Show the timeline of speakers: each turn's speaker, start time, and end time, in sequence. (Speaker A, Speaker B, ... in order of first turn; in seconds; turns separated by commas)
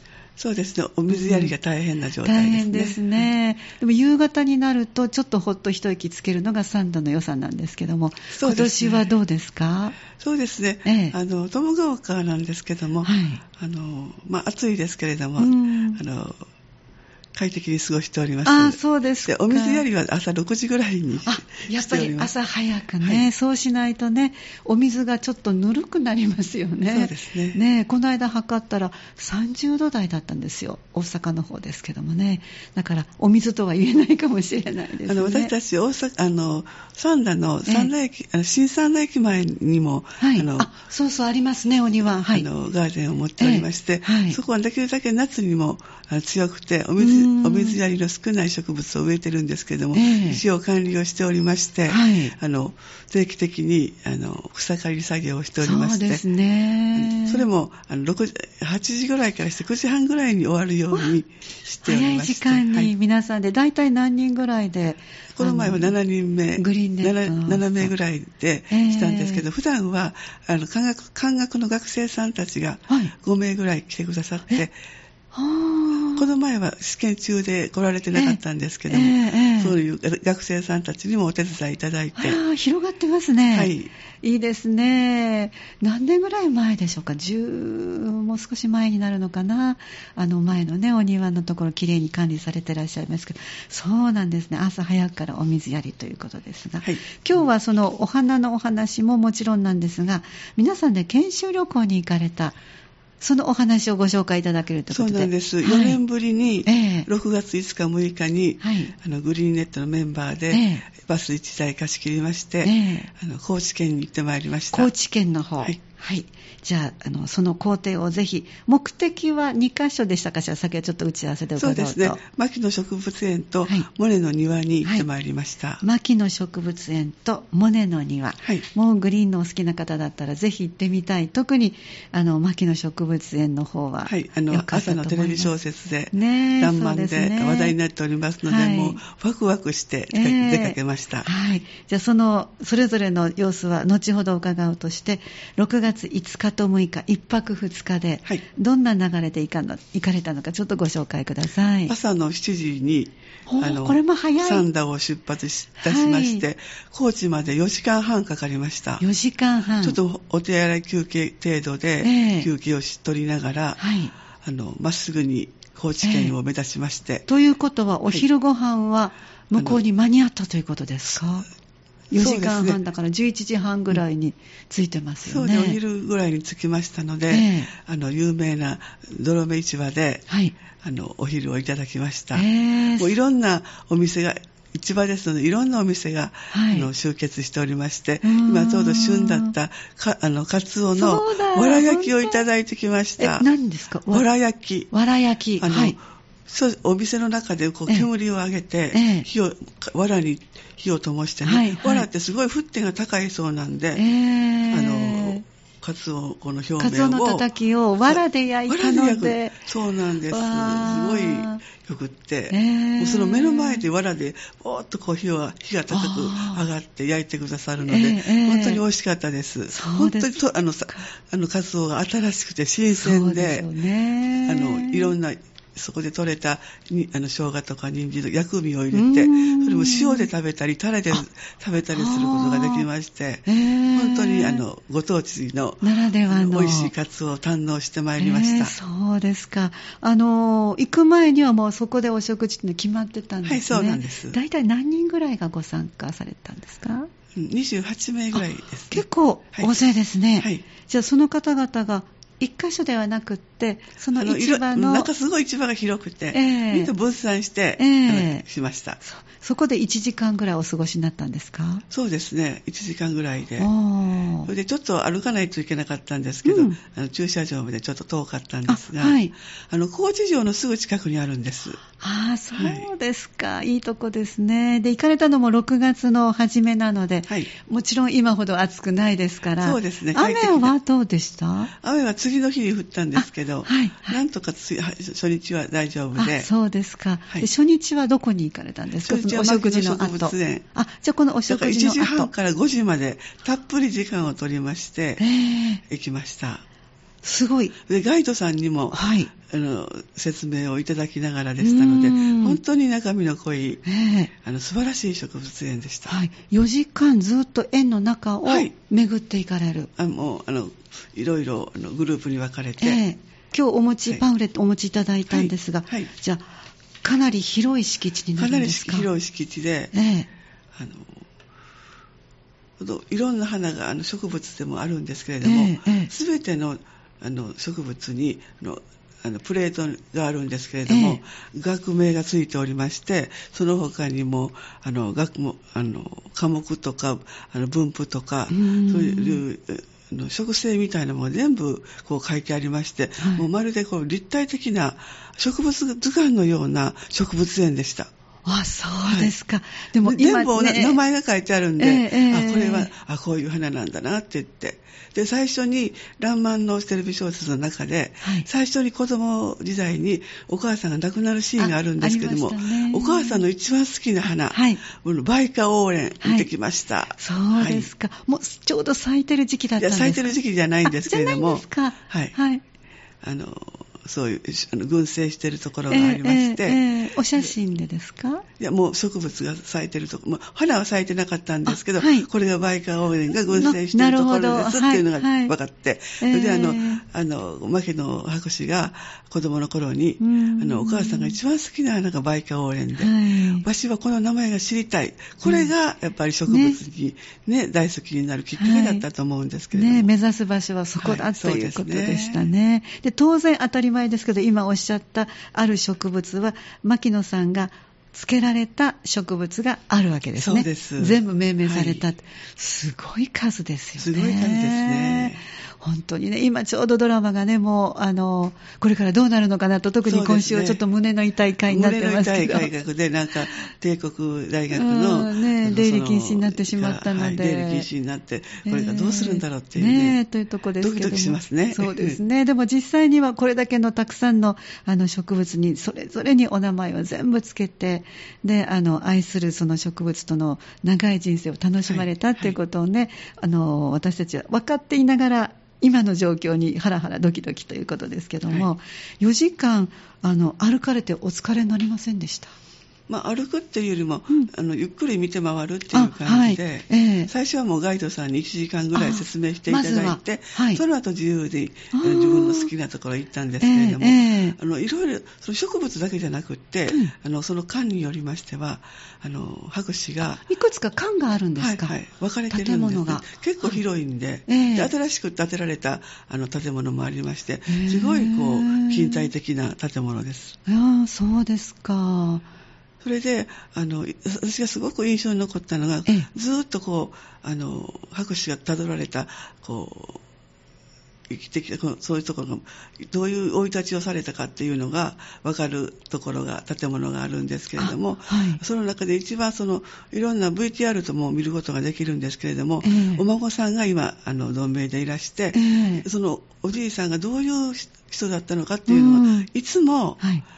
Speaker A: 0.4-3.3, Speaker B: 1.1-1.5, Speaker B: 2.2-10.0, Speaker A: 8.3-9.0, Speaker A: 10.2-16.4, Speaker B: 10.8-11.2, Speaker B: 13.0-13.4, Speaker B: 15.4-16.0, Speaker A: 17.3-22.3, Speaker B: 18.4-19.8, Speaker B: 21.2-35.5, Speaker A: 23.0-23.3, Speaker A: 26.9-27.6, Speaker A: 35.0-40.7, Speaker B: 40.2-42.5, Speaker A: 42.2-56.2, Speaker B: 43.4-44.4, Speaker B: 47.0-47.8, Speaker B: 49.9-50.4, Speaker B: 51.9-52.3, Speaker B: 55.6-57.5, Speaker A: 56.9-62.9, Speaker B: 61.8-65.9, Speaker A: 65.3-74.8, Speaker B: 66.6-67.9, Speaker B: 68.7-69.4, Speaker B: 75.3-76.3, Speaker A: 76.2-82.4, Speaker B: 78.1-79.7, Speaker B: 82.2-102.6, Speaker A: 83.5-83.9, Speaker A: 96.8-97.1, Speaker B: 103.2-106.0, Speaker A: 104.9-114.9, Speaker B: 106.7-107.1, Speaker B: 108.6-108.9, Speaker B: 110.5-110.9, Speaker B: 112.6-113.1, Speaker B: 114.7-122.2, Speaker A: 121.6-125.8, Speaker B: 125.8-135.5, Speaker A: 134.1-141.3, Speaker B: 136.1-137.7, Speaker B: 138.4-139.0, Speaker B: 140.1-151.9, Speaker A: 151.9-159.0, Speaker B: 153.5-154.6, Speaker B: 155.8-156.4, Speaker B: 159.0-160.0, Speaker A: 159.8-163.8, Speaker B: 162.0-162.5, Speaker B: 163.8-164.1, Speaker A: 164.4-167.2, Speaker B: 166.0-166.3, Speaker B: 167.3-171.5, Speaker A: 169.5-169.8, Speaker B: 172.1-175.8, Speaker A: 172.1-172.8, Speaker A: 175.2-180.3, Speaker B: 177.3-177.7, Speaker B: 180.3-180.5, Speaker A: 180.8-193.5, Speaker B: 182.3-183.1, Speaker B: 186.5-186.9, Speaker B: 188.2-189.5, Speaker B: 190.9-192.4, Speaker B: 193.2-194.3, Speaker A: 194.1-194.9, Speaker B: 194.9-195.9, Speaker A: 195.6-204.0, Speaker B: 198.9-199.3, Speaker B: 201.4-202.1, Speaker B: 203.9-205.4, Speaker A: 204.7-207.5, Speaker B: 206.8-209.6, Speaker A: 208.1-223.7, Speaker B: 210.3-211.6, Speaker B: 212.5-213.8, Speaker B: 215.9-216.6, Speaker B: 217.8-218.8, Speaker B: 219.7-221.1, Speaker B: 223.0-225.1, Speaker A: 224.4-238.7, Speaker B: 228.9-230.3, Speaker B: 231.9-232.9, Speaker B: 233.4-234.6, Speaker B: 235.8-236.9, Speaker B: 238.2-247.1, Speaker A: 243.4-244.4, Speaker A: 247.3-249.8, Speaker B: 248.3-255.1, Speaker A: 250.4-250.6, Speaker A: 254.1-259.0, Speaker B: 256.3-256.9, Speaker B: 257.8-258.4, Speaker B: 259.0-261.8, Speaker A: 261.9-263.7, Speaker B: 263.6-264.5, Speaker A: 264.4-271.8, Speaker B: 266.4-266.8, Speaker B: 268.7-269.3, Speaker B: 271.8-281.7, Speaker A: 272.5-272.9, Speaker A: 279.6-280.7, Speaker A: 281.8-286.5, Speaker B: 283.1-284.2, Speaker B: 286.1-292.3, Speaker A: 289.0-290.6, Speaker A: 291.5-295.2, Speaker B: 295.2-295.8, Speaker A: 295.9-296.6, Speaker B: 297.2-297.7, Speaker A: 297.9-303.8, Speaker B: 298.9-299.3, Speaker B: 301.6-302.6, Speaker B: 303.8-304.3, Speaker A: 304.4-306.2, Speaker B: 306.1-309.9, Speaker A: 308.4-308.7, Speaker A: 310.0-313.0, Speaker B: 312.8-316.5, Speaker A: 315.3-316.1, Speaker B: 317.0-319.1, Speaker A: 318.4-319.9, Speaker B: 319.9-320.3, Speaker A: 320.7-321.2, Speaker A: 322.8-348.1, Speaker B: 325.4-326.1, Speaker B: 330.9-331.2, Speaker B: 338.5-339.4, Speaker B: 343.2-343.4, Speaker B: 348.4-351.0, Speaker A: 349.0-349.3, Speaker A: 350.0-367.9, Speaker B: 351.8-352.9, Speaker B: 358.2-358.5, Speaker B: 361.6-363.4, Speaker B: 364.5-364.8, Speaker B: 366.2-366.5, Speaker B: 367.2-372.6, Speaker A: 369.8-372.4, Speaker A: 373.2-376.8, Speaker B: 375.9-378.4, Speaker A: 378.6-400.1, Speaker B: 381.7-382.3, Speaker B: 383.4-385.5, Speaker B: 386.2-387.0, Speaker B: 390.2-391.4, Speaker B: 393.0-393.6, Speaker B: 395.4-395.7, Speaker B: 396.5-396.8, Speaker B: 398.6-399.0, Speaker B: 399.7-422.7, Speaker A: 401.0-402.5, Speaker A: 410.4-412.0, Speaker A: 414.0-415.4, Speaker A: 420.0-420.8, Speaker A: 421.7-430.2, Speaker B: 424.7-427.9, Speaker B: 428.6-452.5, Speaker A: 430.8-432.2, Speaker A: 441.8-442.6, Speaker A: 453.1-470.4, Speaker B: 455.9-457.3, Speaker B: 458.9-460.8, Speaker B: 461.9-462.7, Speaker B: 463.6-464.6, Speaker B: 466.9-467.1, Speaker B: 470.3-471.9, Speaker A: 471.6-480.6, Speaker B: 472.5-473.8, Speaker B: 474.5-474.9, Speaker B: 477.7-479.3, Speaker B: 480.7-482.4, Speaker A: 483.0-490.2, Speaker A: 491.3-510.2, Speaker B: 497.8-498.6, Speaker B: 502.8-503.2, Speaker B: 505.5-506.1, Speaker B: 508.9-509.5